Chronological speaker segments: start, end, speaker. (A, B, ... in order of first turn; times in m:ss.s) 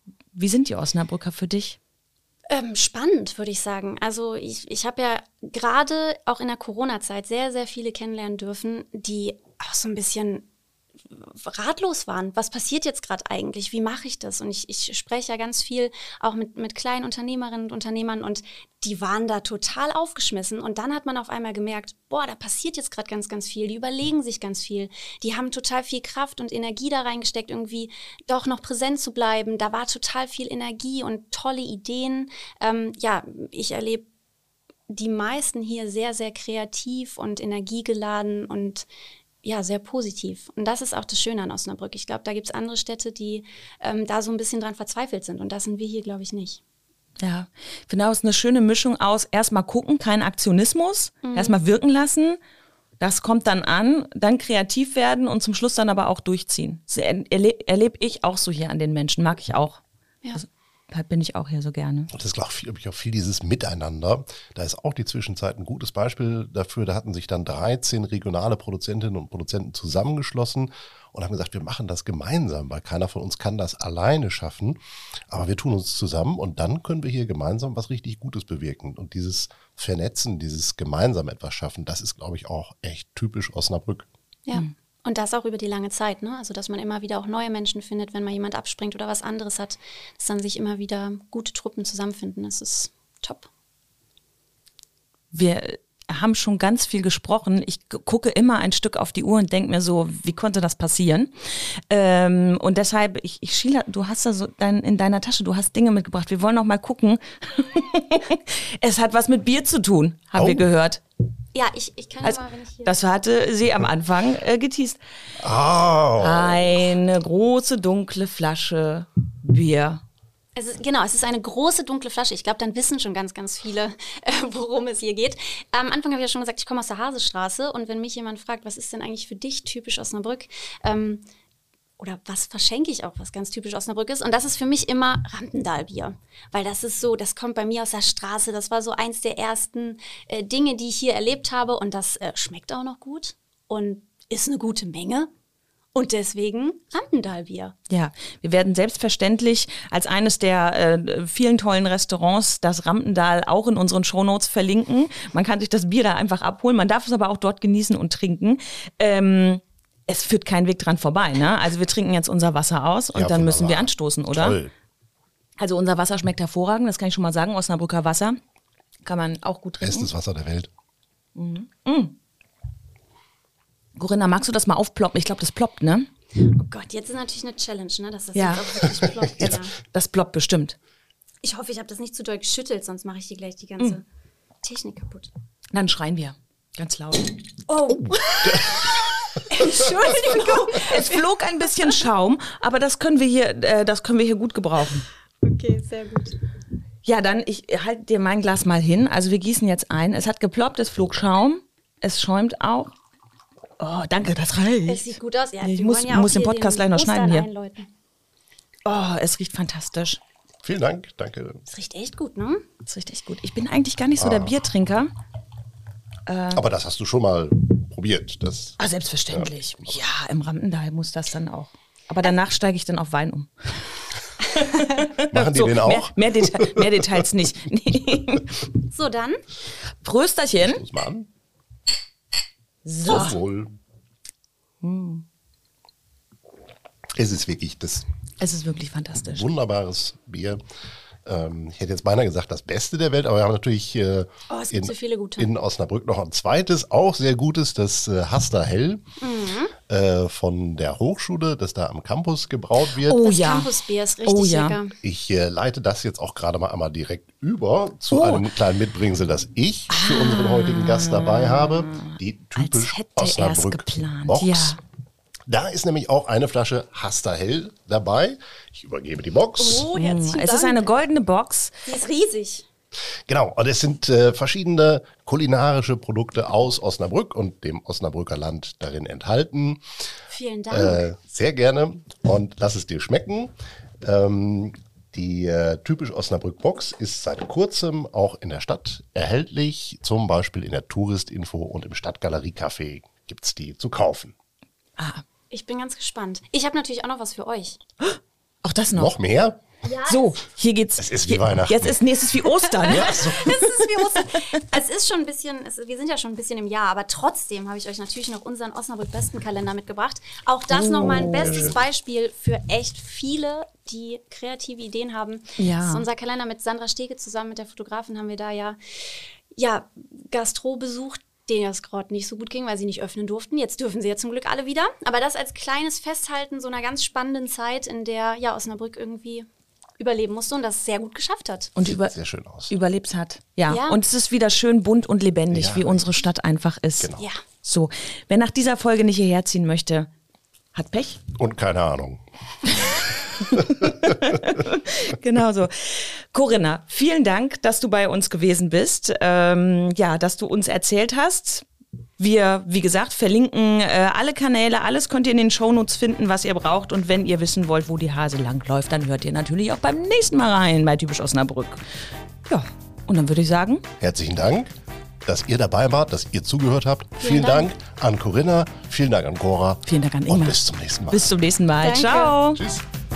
0:00.3-0:01.8 A
0:02.5-0:10.5 B
0:11.1-0:34.1 B
0:34.9-0:38.9 B
0:39.4-0:46.6 B
0:47.2-0:52.4 A
0:51.2-0:51.6 B
0:53.0-0:59.8 A
1:00.3-1:02.1 A
1:02.1-1:24.1 C
1:24.5-1:33.5 B
1:35.3-1:51.0 A
1:50.4-1:50.7 C
1:51.5-1:53.0 B
1:52.2-1:55.0 A
1:55.4-1:56.8 C
1:56.2-2:00.0 A
2:00.6-2:11.2 B
2:12.0-2:25.3 B
2:26.0-2:27.8 B
2:27.9-2:44.6 A
2:43.1-2:44.7 C
2:45.6-2:48.4 A
2:49.0-2:50.1 A
2:49.8-2:50.7 C
2:51.4-2:52.2 A
2:54.0-2:56.1 A
2:56.4-2:59.8 B
2:58.4-2:59.0 A
2:59.8-3:00.8 A
3:01.4-3:04.0 B
3:04.6-3:05.3 B
3:05.7-3:07.3 A
3:07.7-3:08.6 B
3:08.0-3:08.8 C
3:09.5-3:11.2 B
3:10.1-3:15.1 A
3:15.4-3:16.4 B
3:17.0-3:23.0 A
3:23.8-3:25.1 A
3:24.9-3:27.9 B
3:25.6-3:27.5 A
3:28.9-3:30.2 A
3:30.6-3:31.6 C
3:31.7-3:32.6 B
3:32.8-3:35.1 A
3:34.2-3:34.5 C
3:36.3-3:36.6 A
3:36.5-3:38.8 C
3:38.8-3:48.7 A
3:39.3-3:40.0 C
3:45.3-3:47.1 C
3:48.9-3:49.4 B
3:50.0-3:50.8 A
3:50.6-3:51.3 C
3:52.8-3:53.4 A
3:53.1-3:53.8 C
3:54.8-3:55.2 A
3:57.2-3:58.0 C
3:58.4-3:59.5 A
3:59.3-4:00.6 C
4:01.2-4:09.0 C
4:04.5-4:05.5 B
4:09.2-4:09.7 B
4:09.9-4:13.3 C
4:13.0-4:13.7 A
4:13.1-4:15.0 B
4:14.3-4:14.8 A
4:15.0-4:24.8 C
4:18.1-4:18.5 A
4:19.9-4:24.8 A
4:25.5-4:29.9 C
4:29.6-4:30.9 B
4:29.9-4:31.7 A
4:31.8-4:32.7 B
4:33.3-4:39.8 C
4:40.3-4:41.1 B
4:40.7-4:54.3 C
4:55.0-4:55.2 A
4:55.5-4:57.8 B
4:58.0-4:59.1 A
4:58.9-4:59.6 C
4:59.8-5:00.4 B
5:00.1-5:04.2 A
5:01.0-5:02.0 C
5:02.8-5:03.6 C
5:02.8-5:29.5 B
5:10.7-5:11.7 A
5:11.0-5:11.8 C
5:15.6-5:16.0 A
5:30.0-5:31.7 B
5:31.8-5:32.2 A
5:31.8-5:32.7 C
5:32.7-5:40.1 A
5:33.7-5:34.0 B
5:35.5-5:36.2 C
5:37.0-5:37.3 C
5:40.7-5:41.2 A
5:41.3-5:42.7 C
5:42.7-5:51.6 A
5:43.6-5:44.2 C
5:52.2-6:03.8 A
6:04.0-6:04.7 C
6:05.3-6:11.2 C
6:07.2-6:07.7 B
6:09.9-6:10.6 A
6:11.1-6:12.6 A
6:11.8-6:12.4 B
6:12.5-6:12.8 C